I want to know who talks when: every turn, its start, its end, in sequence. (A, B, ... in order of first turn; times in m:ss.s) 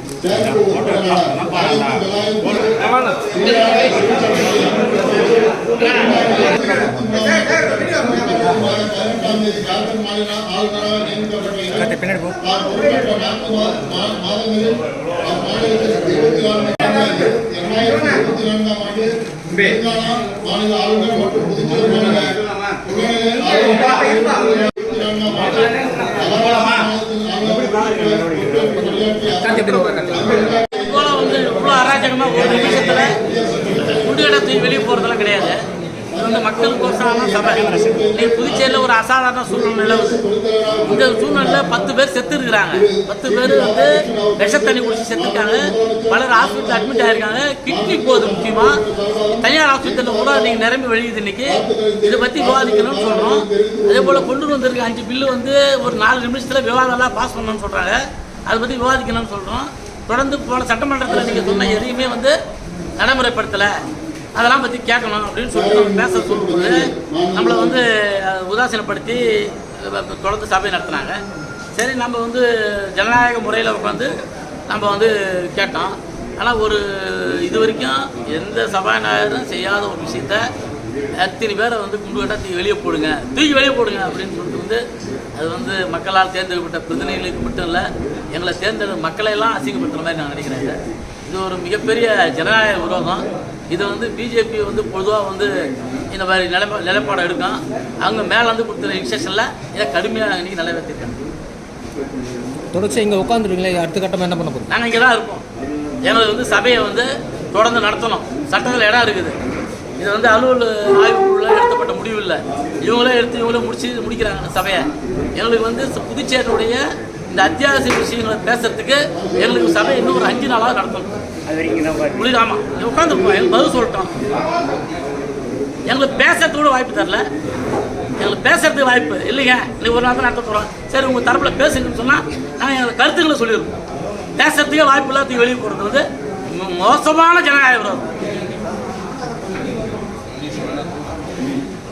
0:00.2-0:35.5 A
0:29.4-0:30.3 B
0:30.7-0:33.2 C
0:34.0-0:35.6 C
0:36.1-0:38.9 A
0:36.1-0:40.2 C
0:39.5-0:41.7 A
0:40.9-0:48.8 C
0:42.7-0:50.7 A
0:49.4-1:02.4 C
0:51.5-0:54.3 A
1:01.1-1:01.8 A
1:03.0-1:03.7 C
1:04.4-1:11.2 C
1:05.5-1:07.8 A
1:11.8-1:14.1 C
1:14.7-1:20.5 C
1:21.2-1:24.8 C
1:25.4-1:35.5 C
1:36.1-1:41.2 C
1:42.7-1:44.6 B
1:44.7-1:45.4 C
1:46.0-1:49.4 C
1:50.0-2:04.2 C
1:59.1-2:00.4 A
2:05.9-2:07.2 C
2:08.2-2:13.8 C
2:14.4-2:18.1 C